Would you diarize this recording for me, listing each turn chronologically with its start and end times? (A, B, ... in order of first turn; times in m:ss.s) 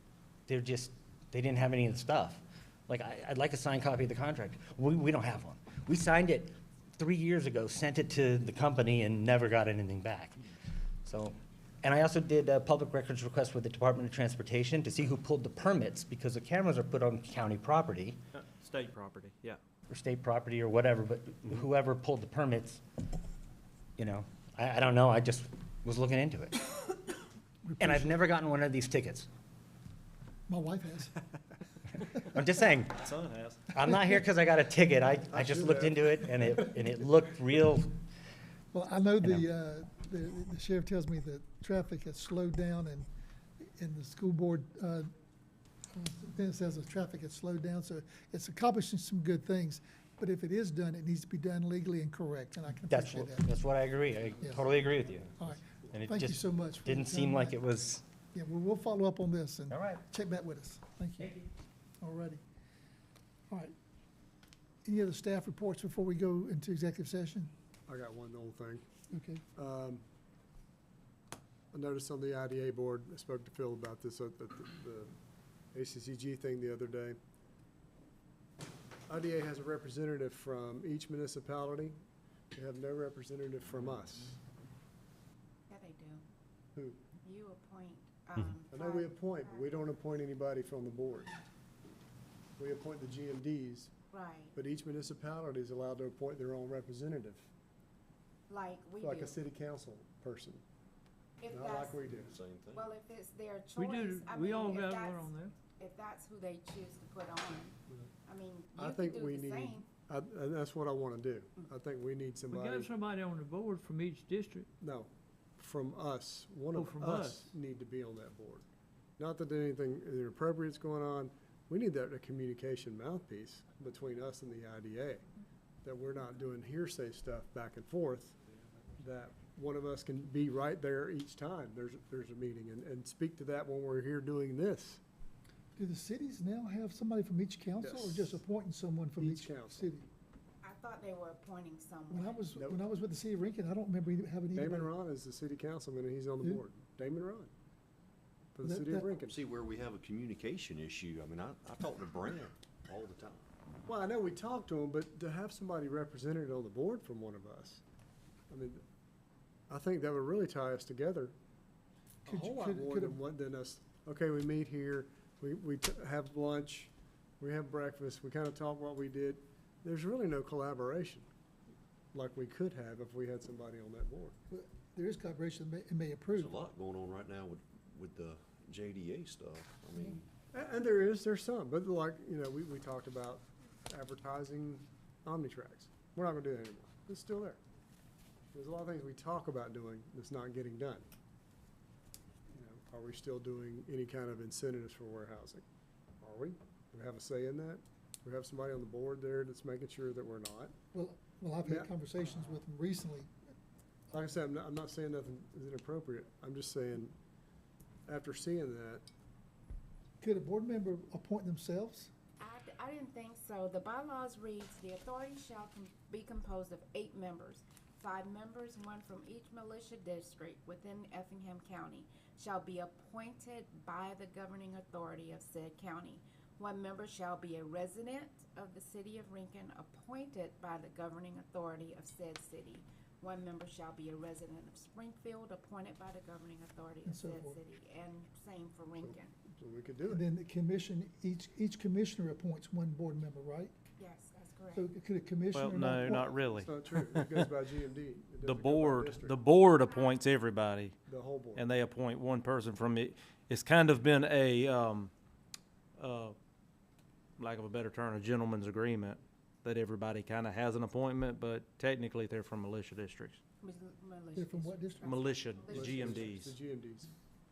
0:00.5-0:10.4 A
0:11.1-0:18.2 A
0:18.5-0:19.6 B
0:19.9-0:22.8 A
0:24.0-0:26.6 A
0:27.6-0:28.2 C
0:27.8-0:29.3 A
0:30.5-0:31.2 C
0:32.4-0:33.0 A
0:33.0-0:33.7 B
0:33.7-0:37.9 A
0:35.3-0:36.8 D
0:38.7-0:43.1 C
0:43.6-0:45.1 C
0:45.9-0:53.5 C
0:52.9-0:58.0 A
0:54.4-0:54.7 C
0:55.4-0:57.6 C
0:58.3-1:01.4 C
0:59.7-1:00.0 A
1:02.0-1:02.4 C
1:04.8-1:07.5 C
1:07.9-1:08.8 D
1:09.1-1:09.4 C
1:09.6-1:10.0 D
1:11.7-1:15.1 D
1:15.7-1:17.2 D
1:19.1-1:22.0 D
1:22.5-1:24.4 D
1:25.7-1:26.2 E
1:26.8-1:27.0 D
1:27.2-1:29.9 E
1:28.7-1:31.4 D
1:32.6-1:33.9 D
1:34.1-1:34.5 E
1:34.5-1:37.5 D
1:38.5-1:39.4 E
1:39.0-1:40.6 D
1:41.4-1:42.0 E
1:41.5-1:42.3 D
1:42.1-1:42.9 F
1:42.7-1:47.8 E
1:43.8-1:45.5 G
1:48.3-1:49.9 E
1:48.8-1:53.0 D
1:52.5-1:54.7 G
1:54.8-1:58.7 D
1:56.8-1:57.5 G
1:59.2-2:05.2 D
2:05.8-2:08.4 D
2:09.0-2:15.0 D
2:15.8-2:20.1 C
2:17.8-2:18.4 D
2:19.2-2:20.0 D
2:20.6-2:22.4 E
2:22.1-2:24.9 C
2:24.5-2:27.5 D
2:28.6-2:29.4 D
2:28.6-2:29.1 C
2:29.2-2:33.4 F
2:33.9-2:37.8 D
2:38.5-2:38.8 D
2:39.7-2:41.3 D
2:42.2-2:51.3 D
2:42.3-2:43.2 C
2:52.1-2:54.4 D
2:54.5-2:56.6 C
2:56.3-3:00.3 F
3:00.5-3:07.6 D
3:08.5-3:11.1 D
3:12.5-3:15.6 D
3:16.2-3:20.8 D
3:20.9-3:23.3 C
3:21.6-3:21.9 D
3:24.1-3:27.2 D
3:28.1-3:29.1 D
3:30.2-3:32.1 C
3:32.4-3:59.3 E
3:57.1-3:57.6 C
3:59.0-4:00.2 D
4:00.1-4:03.7 C
4:04.0-4:04.9 E
4:04.8-4:06.4 C
4:05.5-4:07.5 B
4:06.5-4:09.4 D
4:08.4-4:11.0 B
4:09.8-4:10.2 E
4:11.1-4:11.7 D
4:11.6-4:15.1 B
4:16.0-4:16.4 B
4:17.4-4:23.4 B
4:23.6-4:26.4 E
4:24.4-4:25.2 C
4:25.0-4:26.6 B
4:25.7-4:27.1 D